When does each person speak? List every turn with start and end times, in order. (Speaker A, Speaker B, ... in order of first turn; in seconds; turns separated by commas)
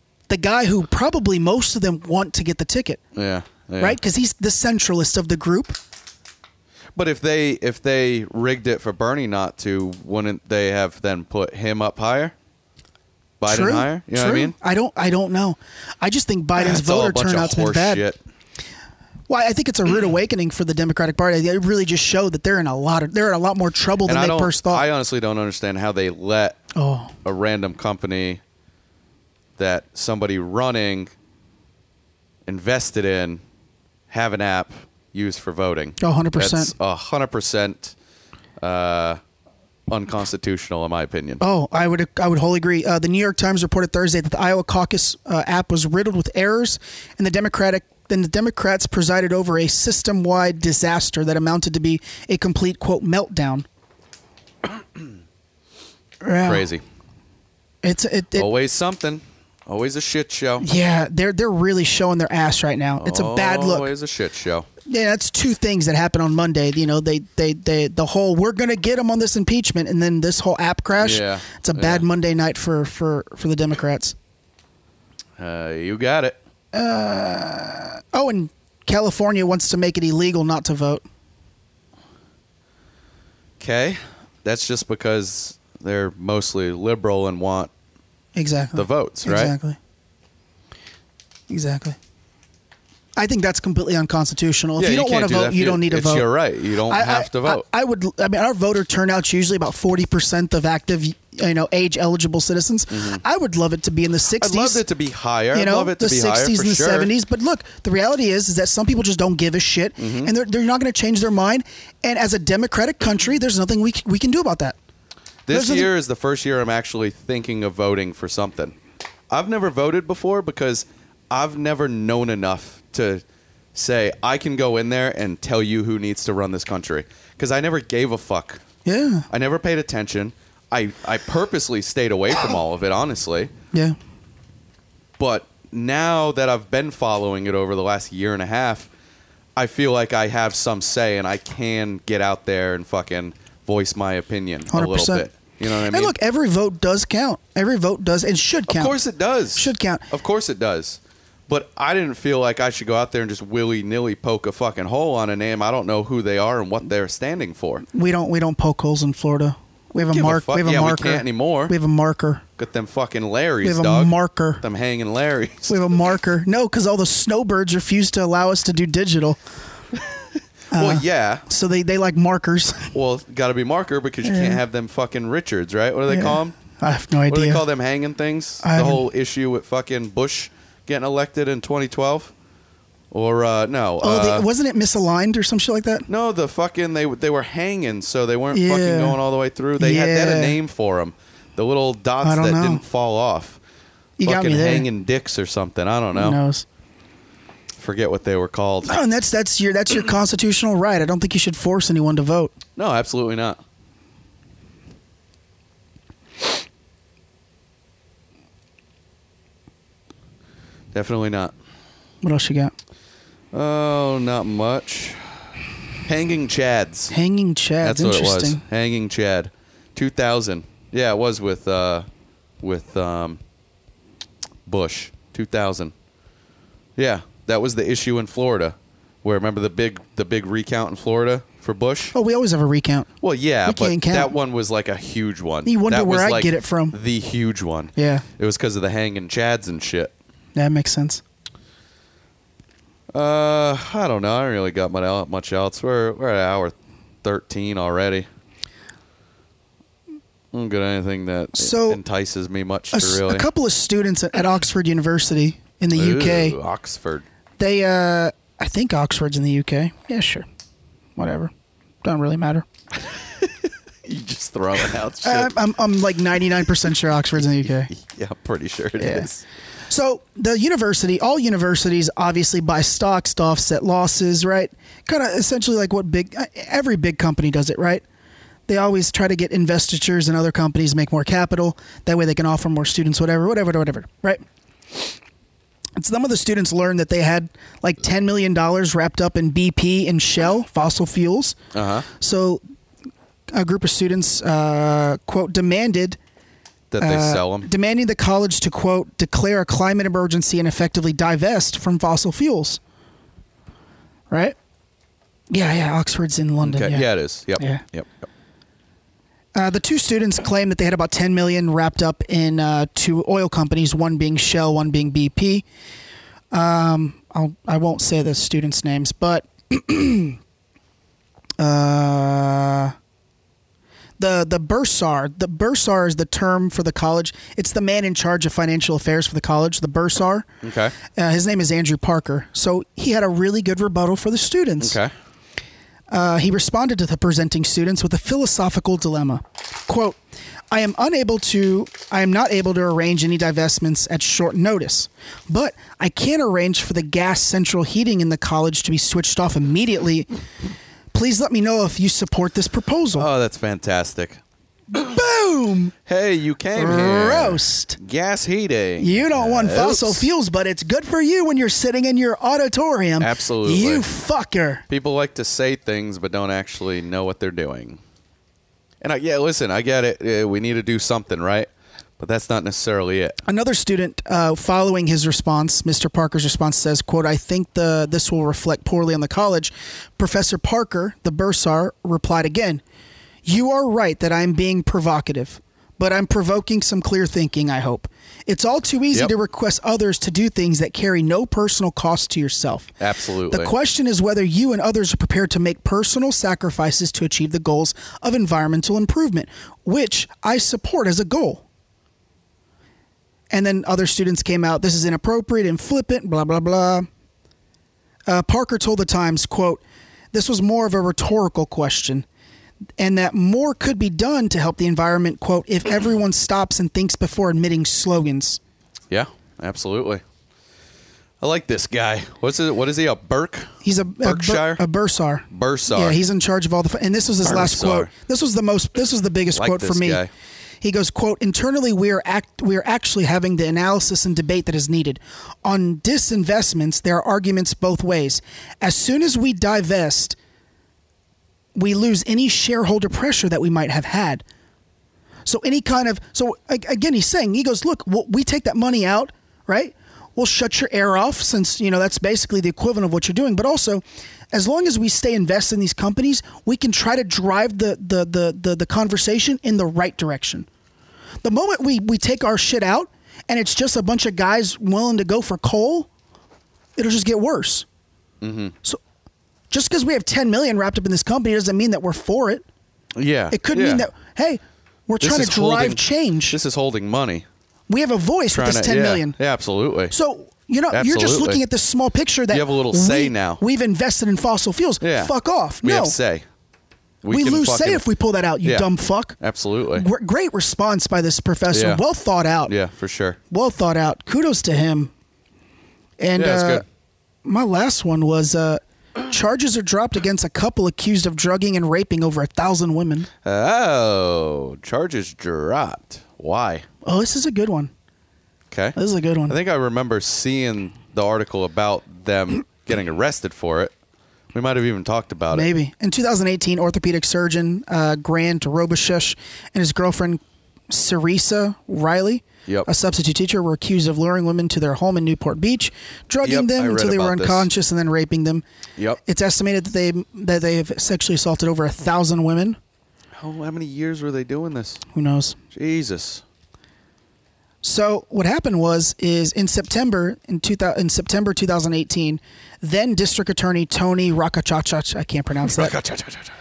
Speaker A: 0.3-3.0, Speaker B: 3.1-4.0, Speaker A: 3.8-5.8, Speaker B: 6.9-12.3, Speaker B: 13.4-14.5, Speaker A: 13.5-18.0, Speaker B: 16.6-18.2, Speaker A: 19.3-24.9, Speaker B: 24.1-26.6, Speaker A: 26.7-27.1, Speaker B: 27.2-28.4, Speaker B: 29.6-31.1, Speaker B: 32.5-33.4, Speaker B: 34.1-37.9, Speaker A: 36.0-36.7, Speaker B: 38.6-39.2, Speaker B: 39.9-41.4, Speaker A: 41.4-53.6, Speaker A: 56.2-56.7, Speaker B: 56.4-56.8, Speaker A: 57.8-58.5, Speaker B: 58.4-60.6, Speaker A: 60.6-63.9, Speaker B: 63.0-64.7, Speaker A: 64.8-74.1, Speaker B: 71.0-72.0, Speaker B: 75.4-76.4, Speaker A: 76.7-81.0, Speaker B: 83.6-87.7, Speaker A: 88.3-89.8, Speaker B: 88.7-89.5, Speaker A: 91.5-92.0, Speaker A: 93.2-96.3, Speaker B: 94.8-97.6, Speaker A: 96.9-104.8, Speaker B: 102.9-103.2, Speaker B: 104.4-107.1, Speaker A: 105.5-114.7, Speaker B: 110.0-110.3, Speaker B: 115.5-118.7, Speaker A: 115.5-115.9, Speaker B: 119.3-123.2, Speaker B: 123.7-128.6, Speaker A: 128.8-129.3, Speaker B: 129.3-133.5, Speaker B: 135.2-138.9, Speaker B: 139.6-146.1, Speaker A: 144.7-145.3, Speaker A: 145.8-149.0, Speaker B: 148.7-157.8, Speaker A: 149.5-150.1, Speaker A: 157.9-162.4, Speaker B: 160.1-161.7, Speaker B: 162.6-165.8, Speaker A: 163.6-164.6, Speaker A: 165.7-169.4, Speaker A: 170.7-172.9, Speaker B: 170.7-171.4, Speaker B: 172.9-176.6, Speaker A: 174.2-174.6, Speaker A: 176.1-177.6, Speaker B: 177.3-182.3, Speaker A: 178.6-179.0, Speaker B: 183.1-184.4, Speaker A: 184.0-186.1, Speaker B: 186.1-193.6, Speaker A: 188.5-189.2, Speaker A: 189.8-190.6, Speaker A: 192.2-192.8, Speaker A: 194.2-194.9, Speaker B: 194.2-196.4, Speaker A: 196.1-196.6, Speaker B: 197.8-198.9, Speaker A: 198.9-202.5, Speaker B: 202.8-203.6, Speaker B: 210.9-211.5, Speaker A: 212.2-212.7, Speaker B: 213.5-215.3, Speaker B: 216.1-217.1, Speaker A: 217.1-218.6, Speaker B: 217.8-222.1, Speaker B: 222.6-223.4, Speaker B: 224.7-225.9, Speaker B: 226.9-232.1, Speaker A: 232.1-233.1, Speaker B: 233.2-240.1, Speaker A: 233.7-234.3, Speaker A: 235.7-236.9, Speaker A: 237.9-238.2, Speaker A: 240.5-241.2, Speaker B: 243.1-248.3, Speaker B: 250.5-253.5, Speaker A: 251.5-252.0, Speaker A: 252.9-256.6, Speaker B: 255.9-257.2, Speaker A: 257.6-260.4, Speaker A: 261.2-261.5, Speaker A: 262.0-262.6, Speaker B: 263.0-265.5, Speaker A: 265.2-267.9, Speaker B: 267.9-269.4, Speaker A: 269.0-269.3, Speaker A: 269.9-278.0, Speaker A: 278.7-284.4, Speaker A: 286.0-291.6, Speaker B: 291.7-292.1, Speaker A: 292.1-292.6, Speaker A: 293.5-296.2, Speaker B: 296.9-297.7, Speaker A: 297.0-302.8, Speaker A: 304.3-304.6, Speaker A: 305.5-307.1, Speaker B: 306.6-308.2, Speaker A: 307.6-307.8, Speaker A: 309.5-315.6, Speaker A: 316.5-320.4, Speaker A: 321.6-322.9, Speaker A: 324.2-330.4, Speaker B: 330.6-330.9, Speaker A: 331.1-335.0, Speaker B: 334.8-335.1, Speaker A: 336.1-340.2, Speaker A: 340.7-350.3, Speaker A: 351.1-353.3, Speaker B: 353.1-354.4, Speaker A: 354.9-355.9, Speaker B: 356.1-360.3, Speaker A: 356.8-358.0, Speaker A: 359.0-364.8, Speaker B: 363.2-364.0, Speaker B: 364.9-368.0, Speaker B: 369.0-373.4, Speaker A: 373.4-382.8, Speaker A: 383.4-392.9, Speaker B: 393.0-393.7, Speaker A: 393.5-401.6, Speaker A: 403.5-407.1, Speaker A: 408.3-409.8, Speaker A: 410.3-412.2, Speaker A: 413.0-418.6, Speaker B: 419.1-420.2, Speaker B: 421.4-424.8, Speaker A: 423.8-430.2, Speaker B: 425.5-426.2, Speaker B: 427.4-428.1, Speaker B: 429.5-430.3, Speaker A: 430.8-440.4, Speaker A: 441.7-444.4, Speaker A: 445.4-460.7, Speaker A: 461.4-466.1, Speaker A: 467.0-467.9, Speaker B: 468.4-468.7, Speaker A: 469.7-472.6, Speaker B: 473.1-474.1, Speaker A: 473.5-476.6, Speaker B: 475.2-477.4, Speaker A: 477.9-479.4, Speaker B: 478.5-480.1, Speaker A: 480.1-486.2, Speaker B: 480.9-481.6, Speaker B: 482.5-483.6, Speaker B: 485.0-485.3, Speaker B: 485.8-486.4, Speaker B: 487.2-488.1, Speaker A: 487.3-489.4, Speaker B: 488.6-488.9, Speaker B: 489.4-490.1, Speaker A: 489.9-492.7, Speaker B: 491.7-492.0, Speaker B: 492.7-493.4, Speaker A: 493.5-495.1, Speaker A: 496.2-496.8, Speaker B: 496.4-496.8, Speaker A: 497.4-503.3, Speaker B: 503.4-506.8, Speaker A: 507.0-507.9, Speaker B: 508.7-509.0, Speaker A: 508.9-509.6, Speaker B: 509.5-513.9, Speaker B: 514.5-515.7, Speaker A: 515.5-528.6, Speaker B: 526.4-527.7, Speaker A: 529.2-532.8, Speaker B: 533.4-535.0, Speaker A: 535.1-535.6, Speaker B: 535.7-536.4, Speaker A: 537.8-545.9, Speaker B: 545.6-546.5